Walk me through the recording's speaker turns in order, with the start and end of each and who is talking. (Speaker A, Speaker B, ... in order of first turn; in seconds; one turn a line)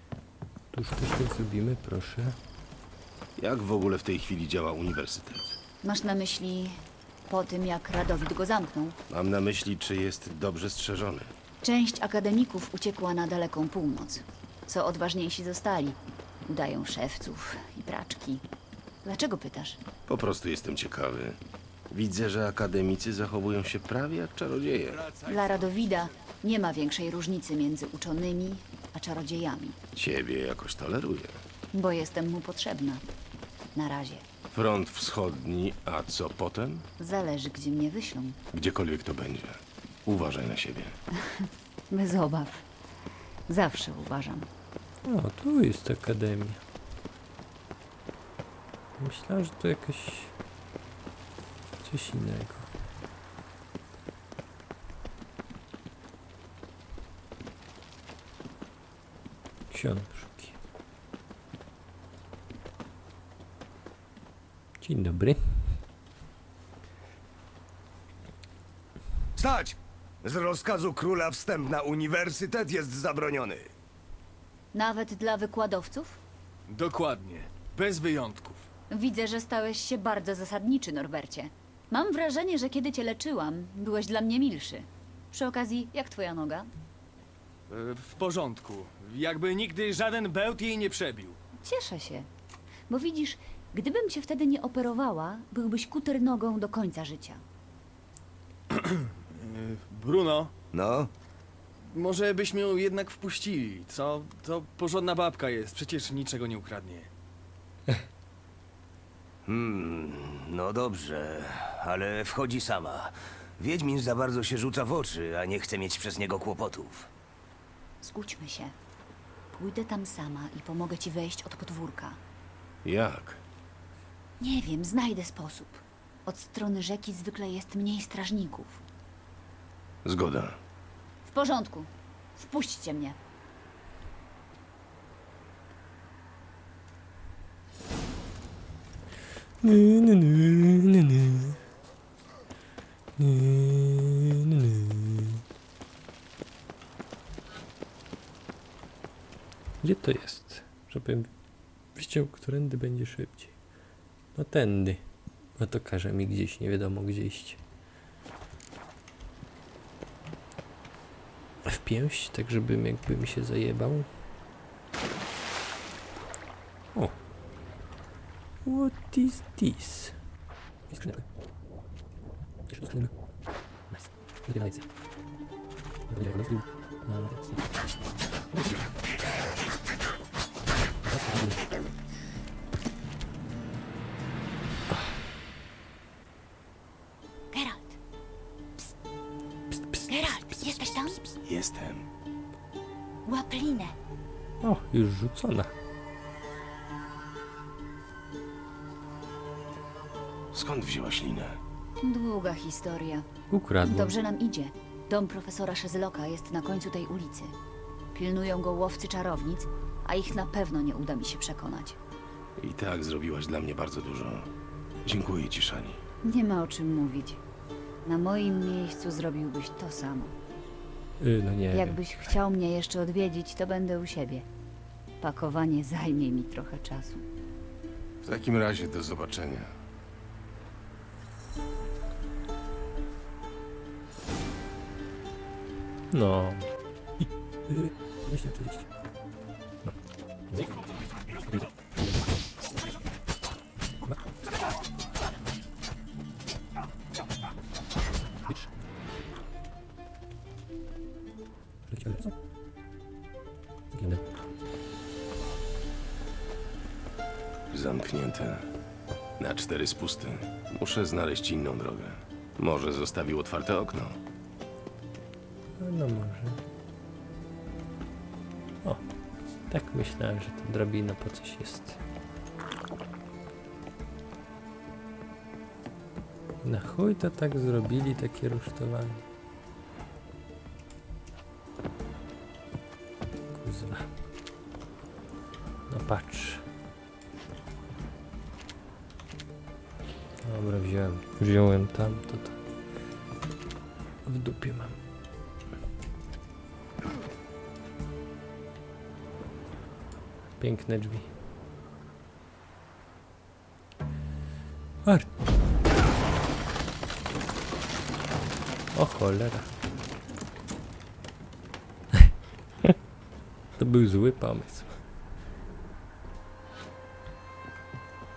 Speaker A: 0.7-2.4
Speaker B: 3.4-5.6
Speaker C: 5.8-9.0
Speaker B: 9.1-11.3
Speaker C: 11.6-18.4
Speaker C: 19.0-19.8
Speaker B: 20.1-21.4
Speaker B: 21.9-25.1
Speaker C: 25.2-29.8
Speaker B: 30.0-31.4
Speaker C: 31.7-33.0
Speaker C: 33.7-34.3
Speaker B: 34.5-36.9
Speaker C: 37.0-38.4
Speaker B: 38.5-41.0
Speaker C: 41.2-42.6
Speaker C: 43.5-44.5
Speaker A: 45.1-46.6
Speaker A: 49.0-50.3
Speaker A: 51.8-52.7
Speaker A: 59.7-60.6
Speaker A: 64.8-65.7
Speaker D: 69.4-73.7
Speaker C: 74.7-76.2
Speaker E: 76.7-78.7
Speaker C: 78.9-86.7
Speaker E: 87.7-91.4
Speaker C: 91.6-92.3
Speaker C: 92.9-97.4
Speaker E: 98.7-100.5
Speaker F: 100.7-101.1
Speaker E: 101.8-107.1
Speaker F: 109.5-117.1
Speaker C: 118.0-118.8
Speaker C: 119.5-122.2
Speaker B: 122.8-123.4
Speaker C: 124.4-128.8
Speaker B: 130.1-130.6
Speaker C: 131.2-133.2
Speaker A: 139.6-141.6
Speaker A: 143.2-145.4
Speaker A: 149.8-151.3
Speaker A: 151.9-153.5
Speaker A: 154.3-155.0
Speaker A: 155.6-157.6
Speaker A: 161.7-164.1
Speaker A: 168.7-170.2
Speaker A: 170.9-171.2
Speaker A: 172.7-173.1
Speaker A: 173.9-174.8
Speaker A: 176.1-177.5
Speaker A: 181.1-181.6
Speaker C: 187.5-188.0
Speaker A: 189.8-190.1
Speaker C: 190.1-191.3
Speaker B: 191.4-192.1
Speaker C: 193.3-194.0
Speaker A: 194.6-195.7
Speaker B: 200.5-201.6
Speaker C: 202.0-203.3
Speaker A: 203.5-204.2
Speaker C: 203.8-207.6
Speaker C: 208.1-212.0
Speaker B: 212.6-214.5
Speaker B: 215.0-216.0
Speaker C: 216.2-217.4
Speaker C: 218.1-220.3
Speaker A: 221.2-222.0
Speaker C: 221.7-224.5
Speaker C: 225.2-227.2
Speaker B: 228.2-229.7
Speaker A: 236.1-236.7
Speaker A: 237.7-238.8
Speaker A: 251.9-252.3
Speaker A: 253.9-254.2
Speaker B: 257.7-258.6
Speaker B: 259.4-264.2
Speaker A: 265.8-266.6
Speaker A: 269.7-272.0
Speaker A: 276.6-279.2
Speaker A: 283.5-284.1
Speaker A: 285.9-286.6
Speaker A: 290.4-292.6
Speaker A: 294.2-295.0
Speaker A: 300.6-301.3
Speaker A: 308.9-309.7
Speaker A: 313.8-314.9